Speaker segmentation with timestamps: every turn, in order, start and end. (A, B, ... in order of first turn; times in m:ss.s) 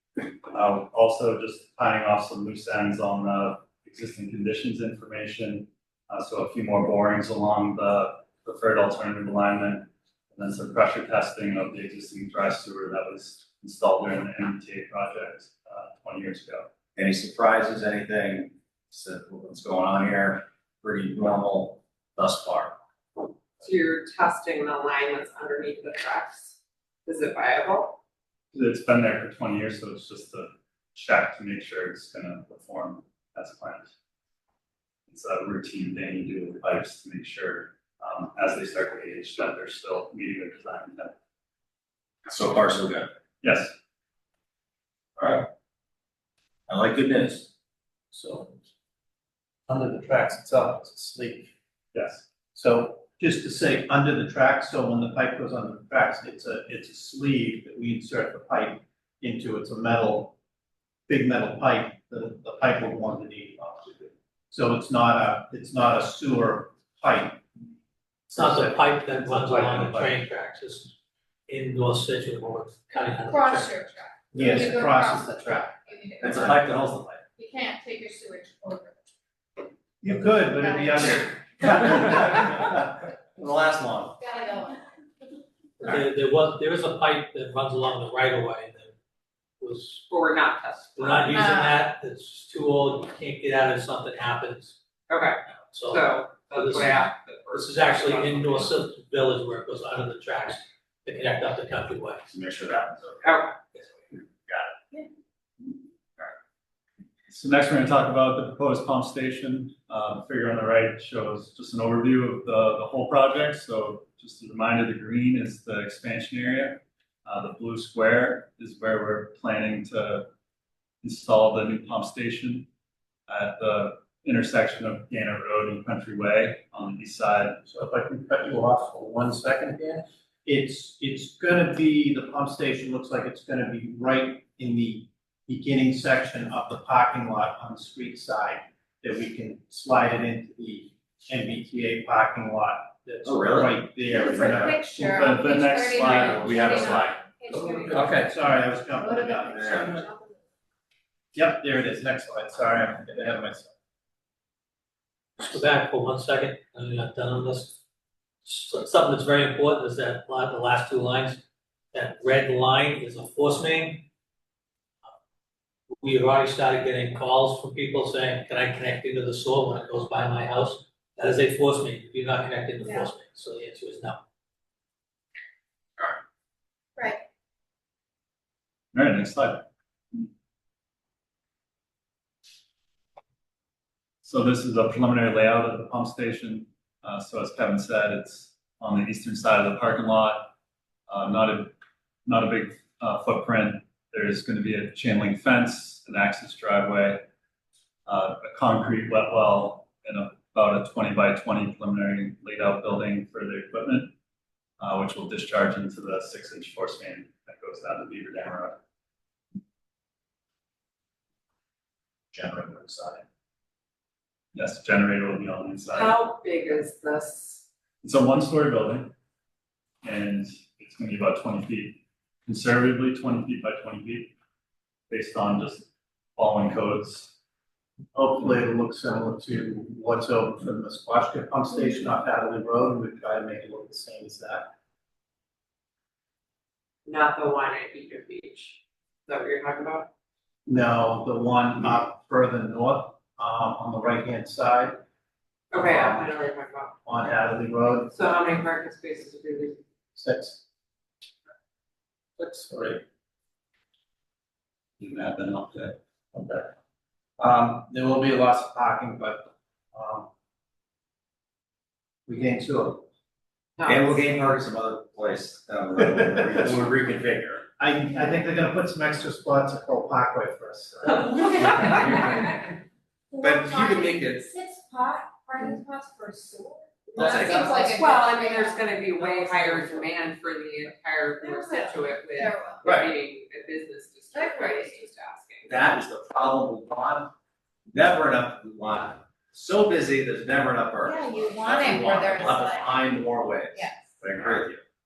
0:00.5-0:16.7 A
0:17.0-0:22.8 B
0:23.6-0:28.0 C
0:28.5-0:33.9 A
0:35.1-0:41.1 A
0:42.2-0:43.1 B
0:43.4-0:43.7 A
0:45.2-0:45.5 B
0:46.7-0:47.5 B
0:48.1-0:48.6 D
0:49.7-0:51.5 D
0:51.9-0:52.2 A
0:52.5-1:00.4 D
1:01.1-1:07.4 D
1:08.3-1:10.9 E
1:08.4-1:10.0 D
1:11.5-1:13.8 E
1:13.3-1:16.7 F
1:14.3-1:15.9 D
1:16.2-1:17.2 B
1:17.4-1:19.0 F
1:20.0-1:23.0 D
1:20.6-1:21.3 F
1:23.4-1:24.1 B
1:24.2-1:24.9 F
1:25.8-1:28.9 E
1:29.6-1:30.0 E
1:30.1-1:31.6 C
1:31.0-1:34.8 E
1:31.3-1:31.8 F
1:35.1-1:38.8 C
1:35.6-1:42.3 E
1:42.3-1:43.4 B
1:43.2-1:43.6 C
1:47.3-2:00.3 A
2:01.0-2:02.7 A
2:03.3-2:07.6 A
2:07.6-2:25.2 D
2:23.2-2:23.8 B
2:24.1-2:28.3 F
2:25.0-2:27.2 A
2:26.6-2:26.9 B
2:27.8-2:30.0 D
2:28.9-2:30.4 F
2:29.5-2:30.0 B
2:31.3-2:33.7 D
2:35.4-2:37.8 E
2:38.4-2:44.0 E
2:46.0-2:54.2 E
2:58.9-2:59.6 A
3:04.2-3:10.5 A
3:11.1-3:11.7 A
3:12.2-3:17.2 A
3:18.0-3:24.1 A
3:24.8-3:28.8 A
3:32.3-3:33.2 B
3:34.5-3:36.2 A
3:35.9-3:37.6 C
3:38.0-3:39.1 A
3:40.0-3:44.3 A
3:45.1-3:47.3 A
3:48.1-3:54.7 D
3:57.0-4:00.1 C
4:00.7-4:05.0 D
4:05.7-4:07.0 C
4:05.7-4:06.3 D
4:07.0-4:08.2 D
4:08.1-4:09.8 C
4:10.1-4:10.6 D
4:12.4-4:13.0 D
4:15.0-4:16.0 A
4:16.3-4:16.7 D
4:17.4-4:20.3 D
4:22.3-4:23.1 D
4:23.8-4:24.2 C
4:23.8-4:27.6 B
4:27.8-4:32.5 D
4:31.0-4:32.7 C
4:33.3-4:40.0 F
4:33.4-4:34.5 B
4:37.1-4:38.0 B
4:37.4-4:45.8 C
4:41.4-4:43.0 F
4:44.3-4:45.0 F
4:45.7-4:47.3 B
4:47.9-4:54.8 B
4:51.0-4:53.2 F
4:53.7-4:54.2 F